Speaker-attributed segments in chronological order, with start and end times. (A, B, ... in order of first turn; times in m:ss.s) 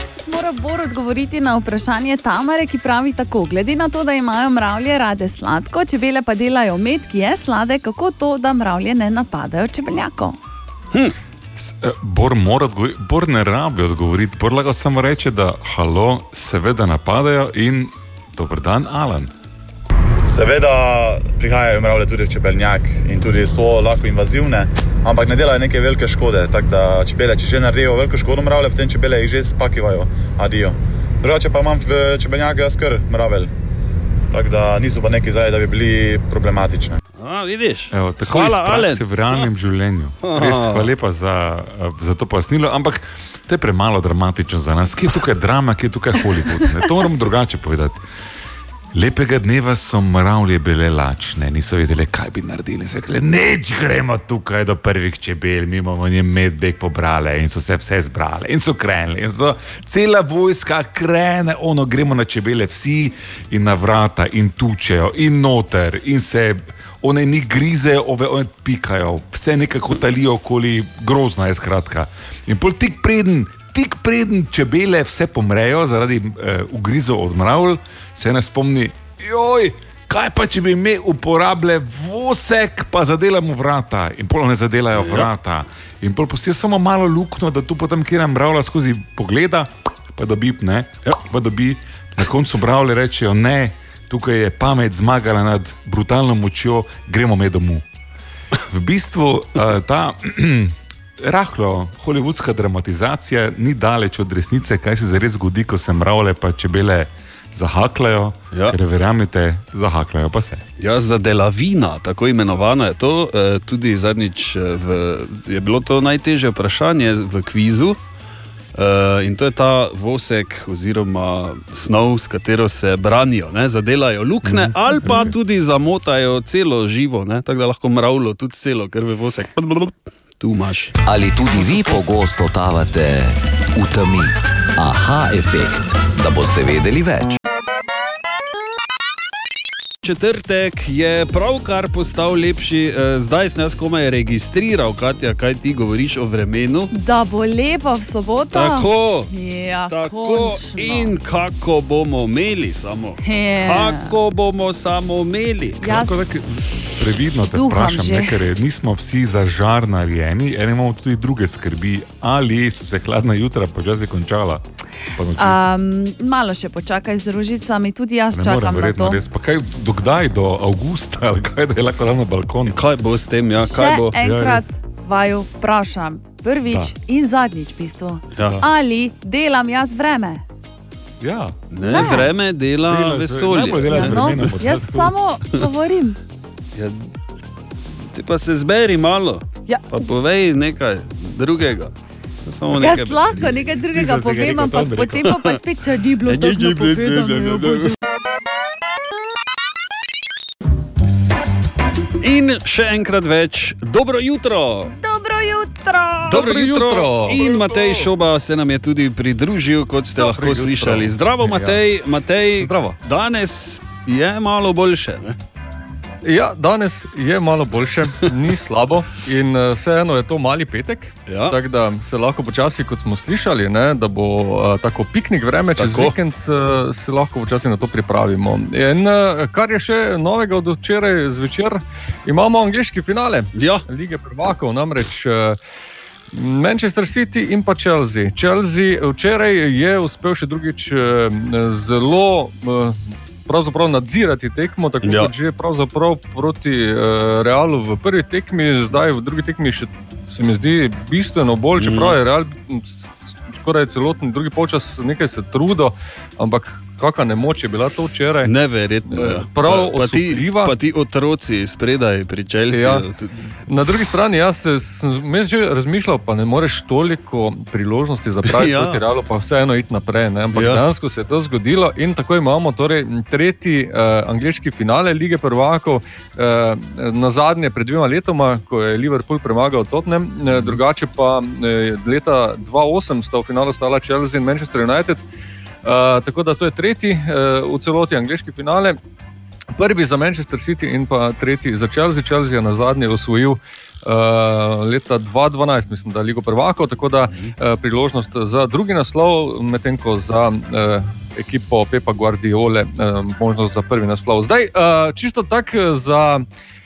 0:00.2-0:10.4 A
0:11.6-0:19.3 B
0:20.3-0:33.5 C
0:34.3-0:37.0 C
0:37.2-0:39.4 D
0:37.9-0:48.0 B
0:40.2-0:40.9 D
0:48.9-1:37.8 B
1:25.0-1:25.3 D
1:38.7-1:50.6 B
1:50.8-1:58.0 D
1:58.7-2:10.9 D
2:04.4-2:05.3 B
2:04.9-2:05.3 A
2:11.0-2:17.4 E
2:20.0-2:26.9 D
2:26.9-2:31.1 A
2:28.5-2:29.3 D
2:29.9-2:35.9 D
2:33.2-2:34.1 A
2:35.8-2:36.2 A
2:35.8-2:44.6 B
2:37.5-2:38.4 A
2:45.2-2:45.6 B
2:45.4-2:49.2 A
2:48.3-2:52.8 B
2:52.7-2:54.2 D
2:53.6-3:00.4 A
2:54.2-2:54.7 B
2:56.7-2:56.9 B
2:58.4-2:58.6 D
3:01.2-3:02.2 B
3:01.7-3:04.5 D
3:01.8-3:02.3 A
3:02.8-3:05.1 B
3:03.9-3:06.2 A
3:06.7-3:07.1 D
3:08.0-3:11.9 D
3:09.7-3:09.9 A
3:12.4-3:13.6 D
3:12.8-3:17.9 A
3:13.4-3:15.4 B
3:16.2-3:17.9 D
3:22.2-3:24.9 D
3:24.9-3:26.3 A
3:26.2-3:35.4 D
3:26.3-3:27.4 F
3:30.2-3:31.1 F
3:31.4-3:31.8 B
3:32.6-3:33.0 F
3:36.2-3:55.6 F
3:41.3-3:41.6 D
3:45.8-3:46.1 D
3:53.5-3:53.8 D
3:56.3-4:18.5 F
4:05.0-4:05.3 D
4:11.8-4:12.2 D
4:18.4-4:23.5 D
4:19.1-4:20.7 F
4:22.7-4:23.0 F
4:23.7-4:45.2 F
4:28.5-4:29.0 D
4:30.5-4:30.8 D
4:40.5-4:40.8 D
4:45.8-4:49.0 F
4:49.7-5:06.4 F